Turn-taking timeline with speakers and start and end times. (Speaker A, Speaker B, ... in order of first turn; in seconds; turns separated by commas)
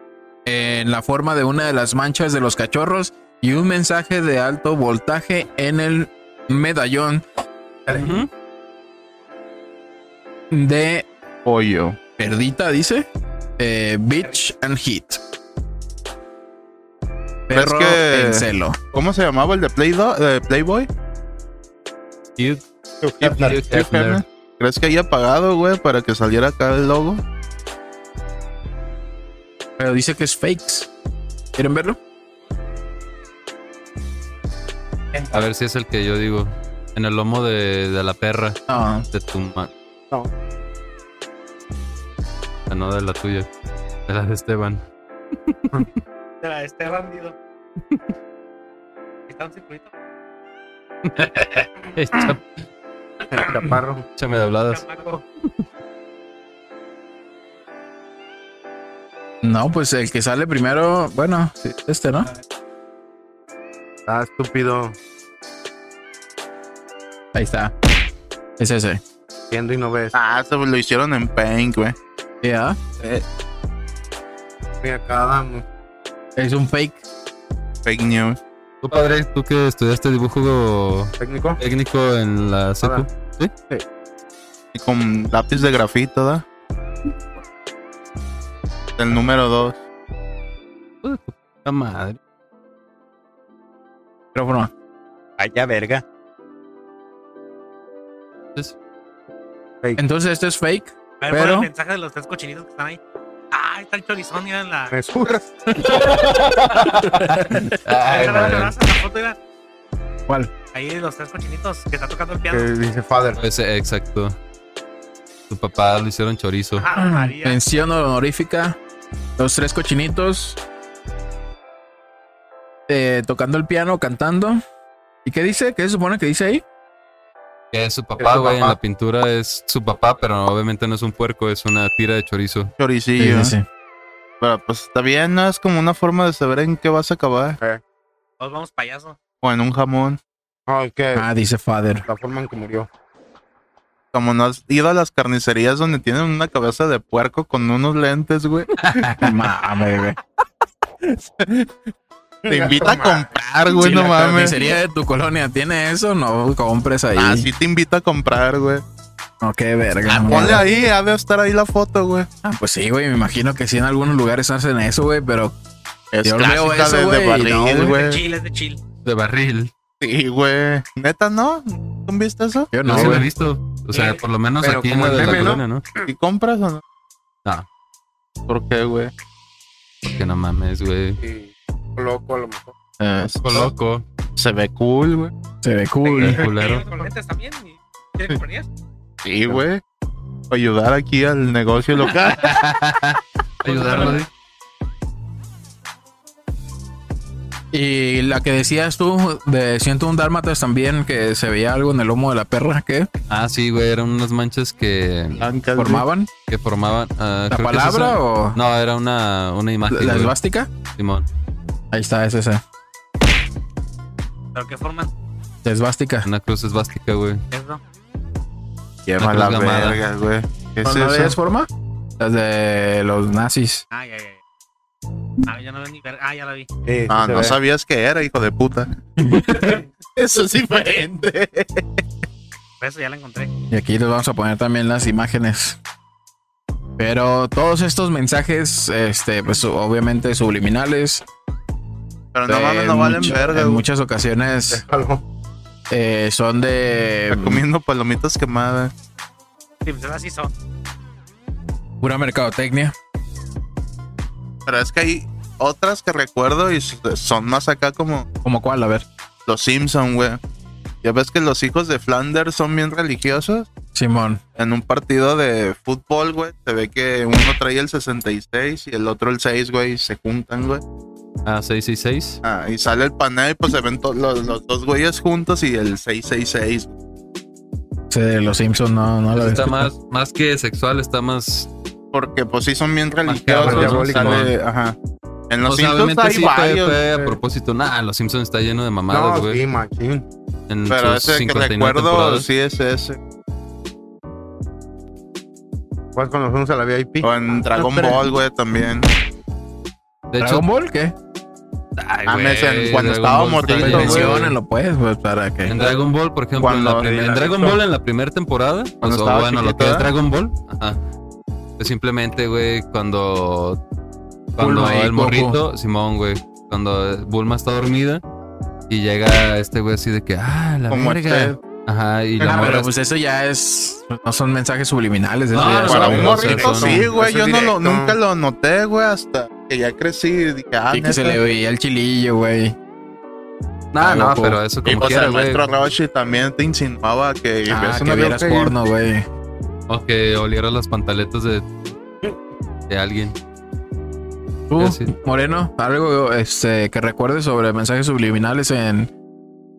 Speaker A: 0.4-7.2, Speaker B: 7.9-8.3, Speaker A: 10.5-11.1, Speaker C: 11.4-12.0, Speaker A: 12.2-15.2, Speaker A: 17.5-18.8, Speaker C: 17.5-20.9, Speaker B: 22.4-22.6, Speaker D: 23.0-23.6, Speaker C: 23.2-27.2, Speaker B: 23.4-24.2, Speaker A: 29.8-30.9, Speaker A: 31.6-32.0, Speaker B: 35.3-39.7, Speaker A: 38.7-39.0, Speaker B: 42.7-43.5, Speaker B: 44.1-44.8, Speaker B: 45.5-45.9, Speaker E: 46.4-47.4, Speaker E: 49.3-49.9, Speaker B: 51.0-52.6, Speaker D: 53.3-54.0, Speaker B: 54.2-54.8, Speaker E: 54.7-55.2, Speaker A: 59.4-62.3, Speaker D: 64.0-65.0, Speaker A: 67.3-67.7, Speaker A: 68.6-69.0, Speaker D: 69.5-70.1, Speaker C: 70.1-72.0, Speaker A: 72.4-72.8, Speaker D: 74.8-75.7, Speaker A: 76.3-77.0, Speaker C: 77.8-78.4, Speaker B: 78.8-83.5, Speaker D: 81.2-81.6, Speaker D: 82.8-83.0, Speaker C: 84.7-86.5, Speaker C: 89.0-89.8, Speaker B: 91.0-92.2, Speaker A: 94.3-94.7, Speaker D: 95.4-96.0, Speaker A: 100.0-101.7, Speaker E: 101.2-104.9, Speaker D: 104.9-105.7, Speaker A: 107.0-107.8, Speaker B: 107.7-108.7, Speaker E: 107.9-109.4, Speaker E: 110.7-112.7, Speaker D: 112.5-113.4, Speaker B: 113.4-114.3, Speaker B: 115.5-116.9, Speaker E: 116.8-117.6, Speaker A: 116.9-118.8, Speaker A: 119.4-120.6, Speaker A: 122.9-124.6, Speaker A: 125.2-126.6, Speaker B: 127.7-132.7, Speaker D: 128.2-128.8, Speaker C: 132.8-133.5, Speaker A: 133.2-133.7, Speaker C: 134.4-137.6, Speaker E: 138.4-139.2, Speaker C: 139.4-140.2, Speaker D: 140.7-141.2, Speaker A: 141.1-142.0, Speaker D: 142.1-142.9, Speaker C: 144.1-149.0, Speaker A: 148.9-150.2, Speaker C: 151.4-151.7, Speaker D: 152.4-153.4, Speaker C: 152.5-154.6, Speaker A: 153.8-157.5, Speaker C: 157.2-158.8, Speaker A: 159.4-160.6, Speaker C: 160.1-162.3, Speaker D: 160.3-160.8, Speaker A: 162.4-165.5, Speaker C: 166.1-168.2, Speaker A: 166.2-167.9, Speaker D: 167.4-167.9, Speaker E: 167.8-168.8, Speaker B: 169.0-169.7, Speaker C: 170.0-173.1, Speaker A: 172.7-173.3, Speaker B: 172.8-175.8, Speaker E: 173.9-174.2, Speaker D: 174.6-175.6, Speaker C: 176.0-176.8, Speaker C: 178.5-179.1, Speaker B: 180.0-181.2, Speaker D: 181.2-182.7, Speaker A: 183.0-183.3, Speaker C: 183.2-183.7, Speaker B: 183.4-184.0, Speaker C: 184.4-185.3, Speaker A: 185.6-186.4, Speaker E: 186.0-188.7, Speaker B: 186.2-186.9, Speaker C: 189.2-189.8, Speaker C: 190.5-192.6, Speaker B: 192.2-194.3, Speaker E: 193.7-194.2, Speaker A: 197.7-203.1, Speaker B: 203.3-205.4, Speaker C: 205.4-206.1, Speaker A: 205.7-206.3, Speaker B: 206.5-210.3, Speaker A: 207.5-208.6, Speaker A: 209.9-210.7, Speaker B: 210.9-211.3, Speaker A: 211.9-212.6, Speaker E: 214.5-215.1, Speaker A: 215.6-216.3, Speaker B: 216.2-217.4, Speaker E: 217.5-217.8, Speaker C: 219.1-221.4, Speaker B: 219.2-220.0, Speaker A: 220.8-223.8, Speaker E: 223.9-224.4, Speaker E: 225.4-226.7, Speaker D: 226.8-227.6, Speaker C: 227.1-228.9, Speaker A: 229.2-229.8, Speaker C: 230.2-232.0, Speaker E: 232.8-233.5, Speaker A: 233.7-235.8, Speaker A: 237.0-241.2, Speaker C: 242.3-243.8, Speaker A: 242.5-244.8, Speaker D: 244.7-245.2, Speaker A: 245.9-247.6, Speaker C: 247.3-248.9, Speaker E: 249.8-250.5, Speaker A: 252.0-252.9, Speaker C: 254.7-258.2, Speaker A: 258.4-259.1, Speaker C: 259.4-260.4, Speaker C: 261.0-263.7, Speaker A: 263.9-264.4, Speaker C: 264.6-270.8, Speaker B: 271.4-272.4, Speaker C: 272.4-276.9, Speaker A: 278.1-279.9, Speaker B: 279.3-281.7, Speaker C: 282.1-285.0, Speaker B: 283.2-284.5, Speaker D: 283.6-284.5, Speaker C: 285.5-287.0, Speaker B: 285.6-289.6, Speaker D: 289.1-290.2, Speaker B: 290.7-292.5, Speaker C: 290.9-293.2, Speaker D: 296.1-298.3, Speaker C: 297.2-299.1, Speaker B: 300.3-300.6, Speaker A: 300.4-301.1, Speaker B: 302.0-304.5, Speaker C: 302.2-304.4, Speaker A: 303.8-305.8, Speaker B: 305.6-311.0, Speaker C: 306.6-307.8, Speaker C: 309.0-310.1, Speaker B: 311.8-313.8, Speaker B: 314.6-318.2, Speaker A: 314.6-315.6, Speaker B: 318.9-322.9, Speaker C: 320.9-321.6, Speaker A: 322.4-326.4, Speaker B: 325.5-327.0, Speaker C: 325.8-331.4, Speaker D: 325.9-328.2, Speaker A: 330.9-332.8, Speaker B: 333.9-335.6, Speaker A: 334.0-334.6, Speaker C: 334.8-338.7, Speaker A: 337.7-339.3, Speaker B: 339.9-341.6, Speaker B: 342.9-343.4, Speaker A: 344.7-349.1, Speaker B: 344.8-345.1